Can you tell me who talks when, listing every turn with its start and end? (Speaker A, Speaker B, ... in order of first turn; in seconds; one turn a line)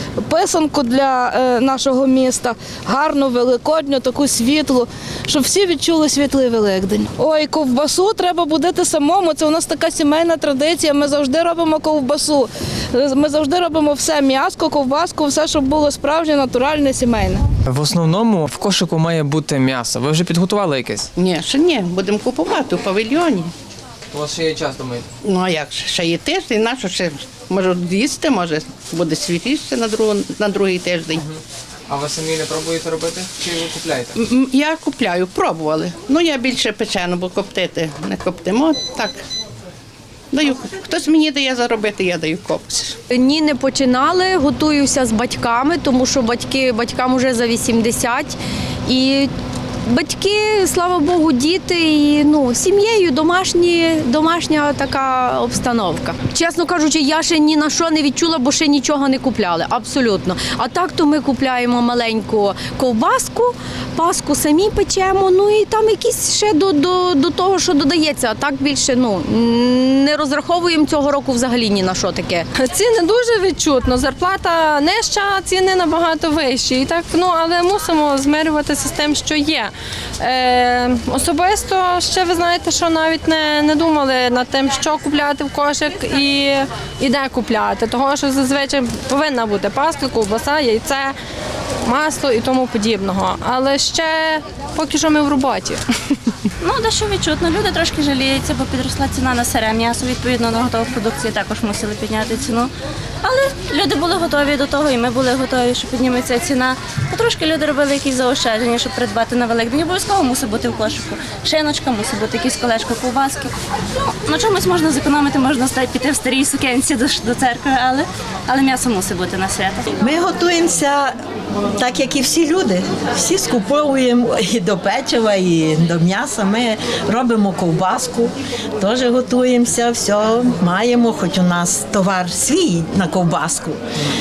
Speaker A: 0.2-17.4
Speaker B: 17.7-21.1
Speaker C: 21.2-23.5
Speaker B: 24.1-25.1
Speaker C: 25.2-31.2
Speaker B: 31.9-34.2
Speaker C: 34.2-39.2
Speaker C: 40.3-43.0
Speaker D: 43.1-48.4
Speaker D: 48.9-49.3
Speaker D: 49.9-72.5
Speaker E: 72.6-91.1
Speaker E: 91.9-95.8
Speaker F: 96.6-102.7
Speaker F: 103.2-119.9
Speaker G: 120.0-121.2
Speaker G: 121.8-133.8